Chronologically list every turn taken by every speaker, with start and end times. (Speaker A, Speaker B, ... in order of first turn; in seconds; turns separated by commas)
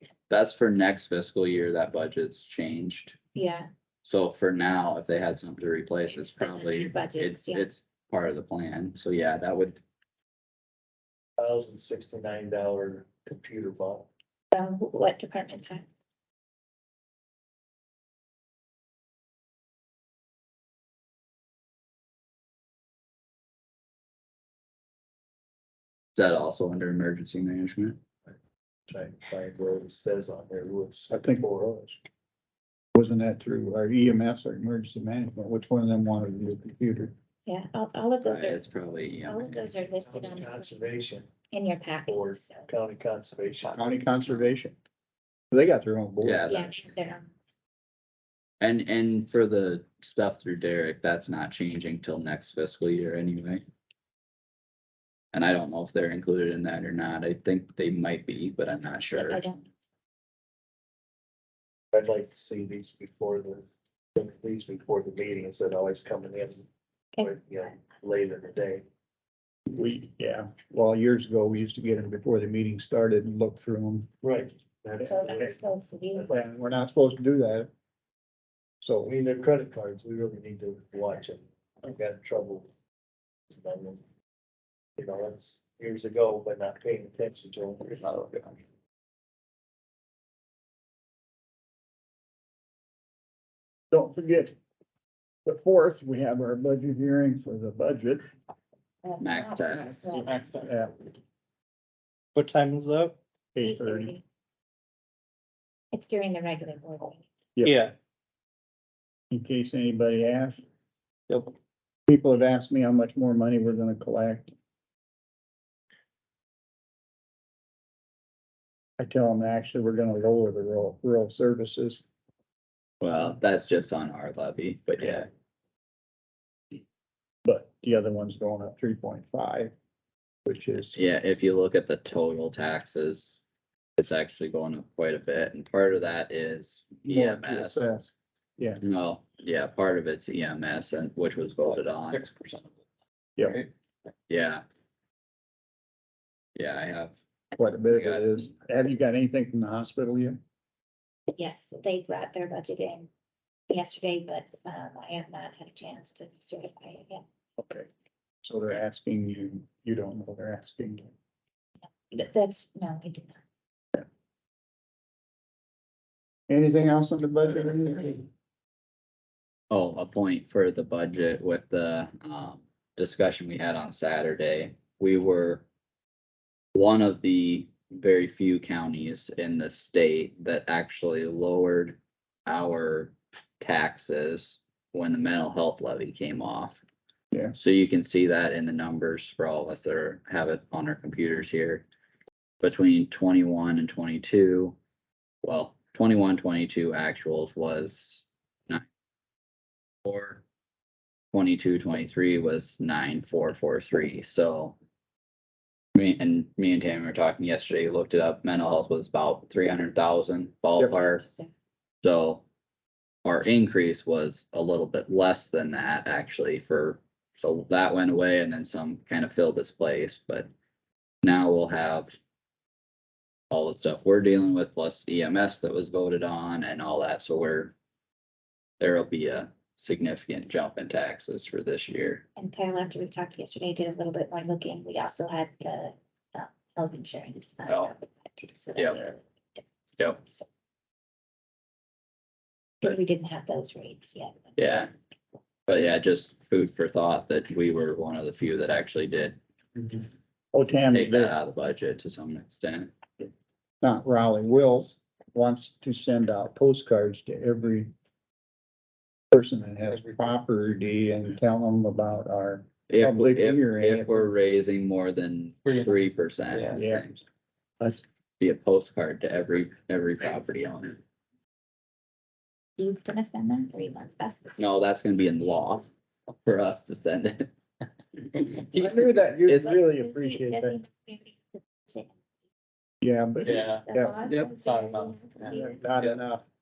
Speaker A: 0.3-3.2, Speaker B: 3.3-3.7, Speaker A: 4.0-9.8, Speaker B: 6.0-7.7, Speaker C: 11.4-14.1, Speaker B: 14.5-15.8, Speaker A: 26.1-28.0, Speaker C: 28.9-31.5, Speaker D: 31.1-32.0, Speaker D: 32.9-37.1, Speaker B: 37.5-38.6, Speaker A: 38.2-39.6, Speaker B: 39.2-40.8, Speaker C: 40.0-41.3, Speaker B: 41.5-42.6, Speaker C: 42.1-43.9, Speaker D: 43.7-44.8, Speaker D: 45.5-46.5, Speaker A: 46.2-46.9, Speaker B: 46.5-47.3, Speaker A: 48.6-53.6, Speaker A: 55.3-59.4, Speaker B: 59.1-59.6, Speaker C: 61.9-66.7, Speaker C: 67.2-68.8, Speaker D: 69.7-74.1, Speaker C: 74.2-75.6, Speaker B: 75.0-76.4, Speaker D: 76.3-77.7, Speaker D: 78.8-79.1, Speaker C: 79.0-82.7, Speaker C: 83.5-84.0, Speaker C: 85.0-88.2, Speaker E: 88.0-88.5, Speaker D: 93.9-94.6, Speaker D: 95.4-98.2, Speaker B: 99.0-100.4, Speaker A: 99.2-100.0, Speaker E: 100.1-100.7, Speaker D: 100.5-101.0, Speaker E: 102.3-103.2, Speaker D: 103.5-104.1, Speaker B: 103.6-104.2, Speaker B: 105.9-107.2, Speaker D: 107.5-107.8, Speaker E: 107.6-107.9, Speaker D: 109.3-110.6, Speaker D: 112.1-114.5, Speaker D: 119.0-122.0, Speaker A: 123.0-125.3, Speaker D: 127.4-129.7, Speaker D: 130.4-131.0, Speaker A: 130.9-133.4, Speaker A: 134.0-137.9, Speaker D: 137.1-138.8, Speaker A: 138.8-142.3, Speaker E: 142.1-142.7, Speaker A: 144.3-144.6, Speaker A: 146.6-147.2, Speaker D: 147.6-150.4, Speaker A: 147.8-148.4, Speaker B: 151.3-153.1, Speaker B: 153.7-157.2, Speaker D: 157.6-157.9, Speaker D: 158.4-161.1, Speaker B: 162.1-163.4, Speaker D: 166.5-168.3, Speaker A: 169.7-175.6, Speaker A: 176.7-186.8, Speaker A: 187.5-191.8, Speaker A: 192.6-194.8, Speaker A: 195.4-198.8, Speaker A: 200.0-200.4, Speaker A: 201.3-204.8, Speaker A: 205.9-211.2, Speaker A: 212.0-212.4, Speaker A: 213.2-220.5, Speaker A: 221.2-222.2, Speaker A: 223.5-227.7, Speaker A: 228.8-232.2, Speaker B: 232.3-239.6, Speaker A: 237.7-237.9, Speaker A: 238.8-239.0, Speaker B: 240.2-240.4, Speaker B: 242.8-244.8, Speaker A: 244.6-244.9, Speaker A: 245.7-249.4, Speaker D: 250.5-251.3, Speaker A: 250.9-252.9, Speaker D: 253.8-257.9, Speaker D: 259.3-264.3, Speaker A: 262.9-267.2, Speaker D: 266.8-267.0, Speaker A: 268.4-271.0, Speaker B: 272.8-274.6, Speaker A: 274.6-275.9, Speaker A: 276.4-277.5, Speaker A: 278.3-279.8, Speaker D: 278.7-280.8, Speaker B: 279.6-282.1, Speaker D: 283.0-284.2, Speaker E: 283.5-283.8, Speaker B: 283.6-285.8, Speaker A: 284.3-285.1, Speaker D: 285.4-286.4